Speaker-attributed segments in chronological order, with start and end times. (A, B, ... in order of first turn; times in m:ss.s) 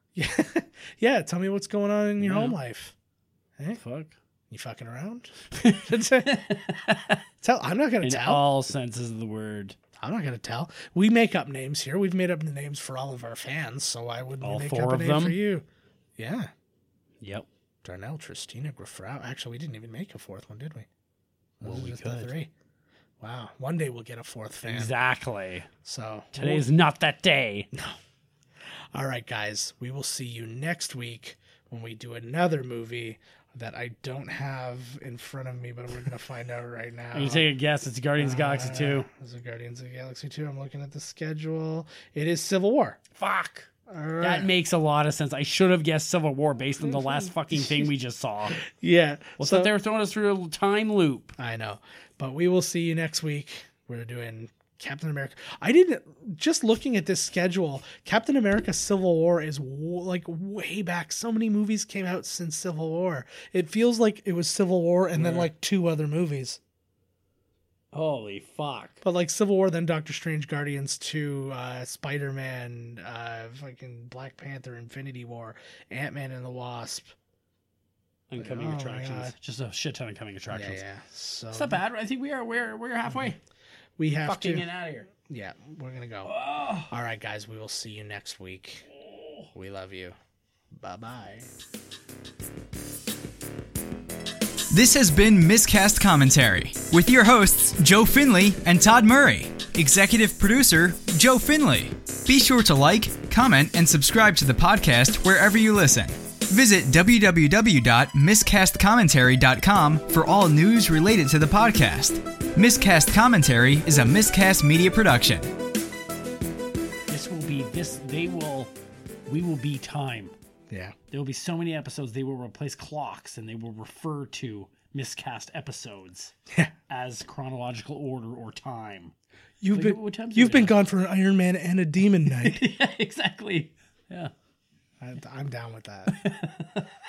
0:00.1-0:02.9 A
0:02.2-0:02.6 B
0:03.8-0:04.2 B
0:04.5-0:06.5 A
0:05.6-0:07.2 B
0:07.4-0:08.5 A
0:08.0-0:09.8 B
0:10.0-0:15.6 A
0:14.4-0:15.4 B
0:16.2-0:16.5 A
0:17.2-0:17.5 B
0:17.8-0:20.9 A
0:21.6-0:22.5 A
0:21.6-0:22.4 B
0:23.2-0:24.9 A
0:24.6-0:25.7 B
0:25.8-0:26.7 A
0:26.3-0:27.7 B
0:28.9-0:37.5 A
0:37.1-0:39.1 B
0:38.2-0:43.0 A
0:43.1-0:48.6 B
0:43.9-0:44.5 A
0:46.8-0:47.9 A
0:48.5-0:49.7 A
0:49.4-0:51.4 B
0:51.4-1:06.6 A
1:05.1-1:05.5 B
1:07.9-1:09.0 B
1:09.0-1:17.1 A
1:18.3-1:20.8 B
1:18.4-1:19.3 A
1:20.5-1:21.8 A
1:21.5-1:23.4 B
1:24.0-1:24.7 A
1:24.2-1:25.1 B
1:25.3-1:26.3 A
1:26.2-1:26.9 B
1:26.9-1:28.9 A
1:29.0-1:29.5 B
1:29.5-1:30.2 A
1:30.7-1:31.5 A
1:34.7-1:55.5 C
1:57.1-1:58.7 B
1:59.3-2:00.3 B
2:00.7-2:01.0 A
2:01.1-2:06.3 B
2:06.9-2:09.1 B
2:09.6-2:12.6 A
2:09.7-2:10.8 B
2:12.4-2:14.3 B
2:15.0-2:16.2 A
2:16.1-2:16.8 B